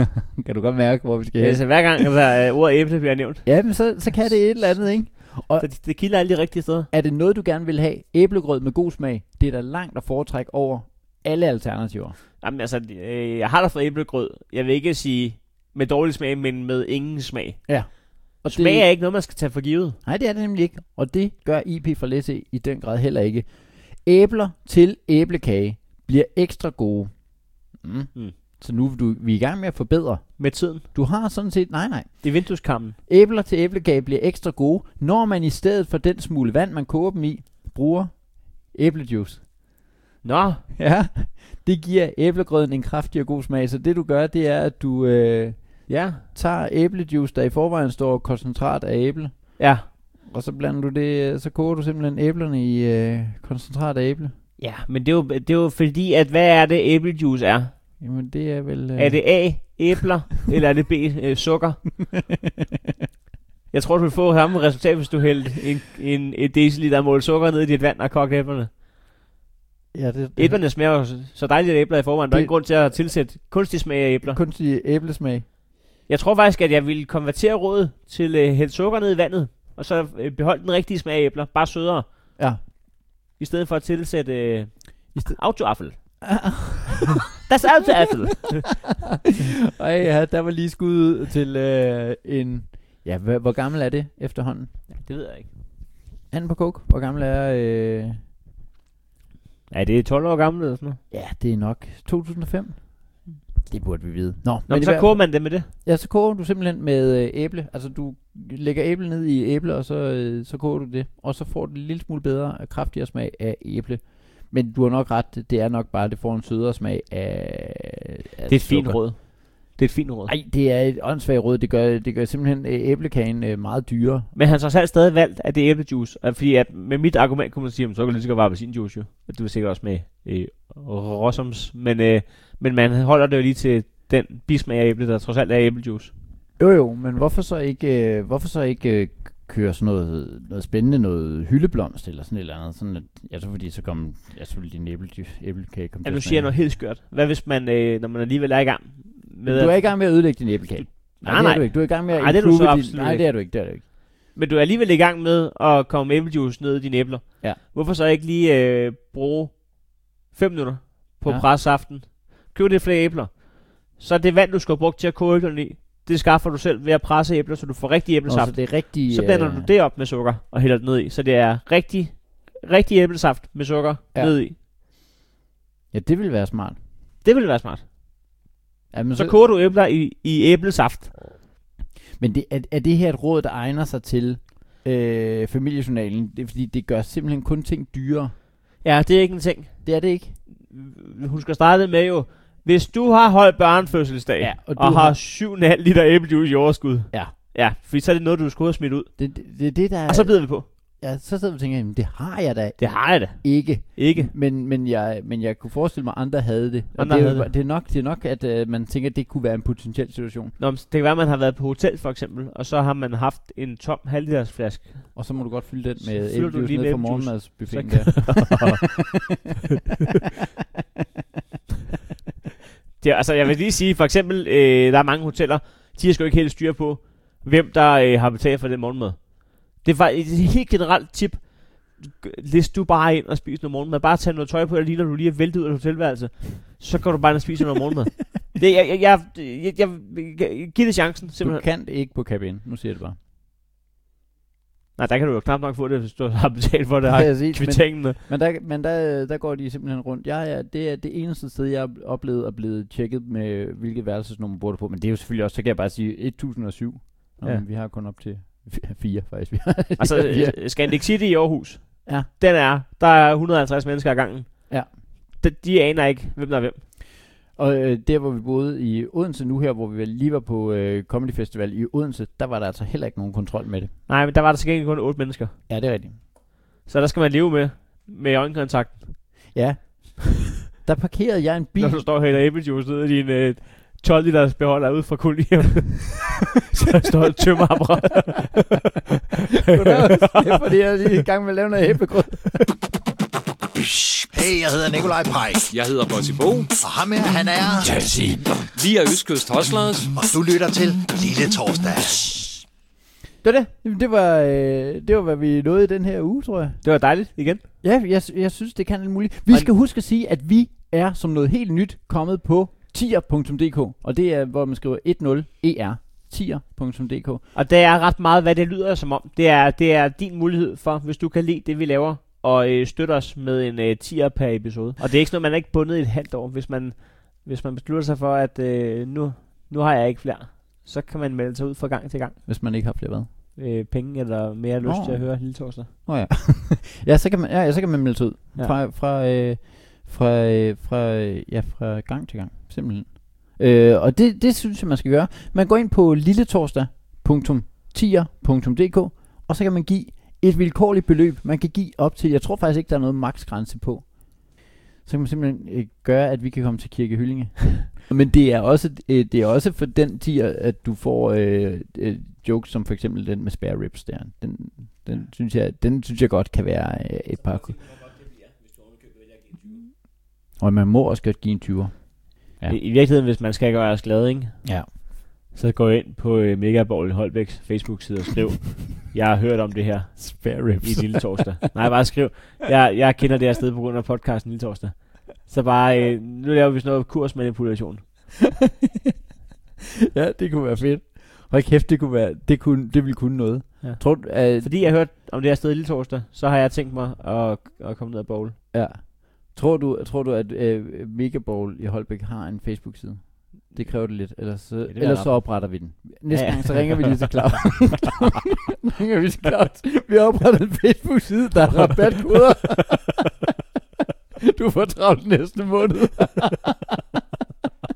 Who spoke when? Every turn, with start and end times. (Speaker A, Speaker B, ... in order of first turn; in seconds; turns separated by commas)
Speaker A: 0.4-2.1, Speaker B: 1.4-3.5, Speaker A: 3.4-5.7, Speaker B: 5.6-6.9, Speaker A: 6.9-12.2, Speaker B: 12.4-20.0, Speaker A: 17.7-18.9, Speaker A: 20.0-39.5, Speaker B: 30.4-30.8, Speaker B: 32.2-33.0, Speaker B: 40.2-40.6, Speaker A: 40.8-54.3, Speaker B: 45.9-46.2, Speaker B: 49.6-49.8, Speaker B: 54.6-57.8, Speaker A: 58.0-59.7, Speaker B: 59.0-62.0, Speaker B: 63.7-68.7, Speaker A: 69.9-70.6, Speaker B: 70.4-74.4, Speaker A: 74.3-75.4, Speaker B: 76.1-82.1, Speaker B: 83.3-86.0, Speaker A: 85.1-85.4, Speaker A: 86.2-87.2, Speaker B: 87.4-88.7, Speaker A: 89.7-94.9, Speaker B: 94.9-95.5, Speaker A: 96.3-98.2, Speaker B: 99.7-101.0, Speaker A: 101.1-119.0, Speaker B: 104.7-105.7, Speaker B: 118.5-120.3, Speaker A: 120.3-124.3, Speaker B: 124.3-136.1, Speaker A: 136.6-146.5, Speaker B: 146.0-150.4, Speaker A: 149.4-153.8, Speaker B: 151.2-153.5, Speaker B: 154.3-174.6, Speaker A: 168.2-169.7, Speaker A: 175.9-176.8, Speaker B: 177.2-177.8, Speaker A: 178.9-179.3, Speaker B: 179.2-181.2, Speaker A: 182.2-188.3, Speaker B: 188.8-199.2, Speaker A: 189.8-190.4, Speaker A: 194.4-195.2, Speaker A: 199.2-210.5, Speaker B: 200.1-200.6, Speaker B: 202.8-204.3, Speaker B: 206.9-207.5, Speaker B: 210.6-219.1, Speaker A: 215.1-219.3, Speaker B: 223.0-241.6, Speaker A: 241.4-243.2, Speaker B: 245.0-248.2, Speaker A: 247.1-260.9, Speaker B: 260.0-266.8, Speaker A: 267.5-273.9, Speaker B: 274.1-275.6, Speaker A: 275.7-276.2, Speaker B: 276.8-279.5, Speaker A: 279.5-282.0, Speaker B: 281.8-288.6, Speaker A: 289.7-292.6, Speaker B: 289.7-290.6, Speaker C: 293.9-295.7, Speaker D: 295.7-296.7, Speaker C: 296.7-297.9, Speaker D: 297.8-300.1, Speaker B: 298.1-298.4, Speaker C: 300.1-302.6, Speaker B: 303.4-303.7, Speaker A: 303.8-306.8, Speaker B: 306.8-307.6, Speaker A: 307.8-317.4, Speaker B: 317.5-332.4, Speaker A: 332.4-333.3, Speaker B: 333.6-335.9, Speaker A: 334.8-367.9, Speaker A: 370.6-372.8, Speaker B: 372.7-388.3, Speaker A: 380.2-381.7, Speaker A: 390.1-394.9, Speaker B: 393.8-398.6, Speaker A: 398.7-413.3, Speaker B: 404.9-407.7, Speaker A: 414.4-417.0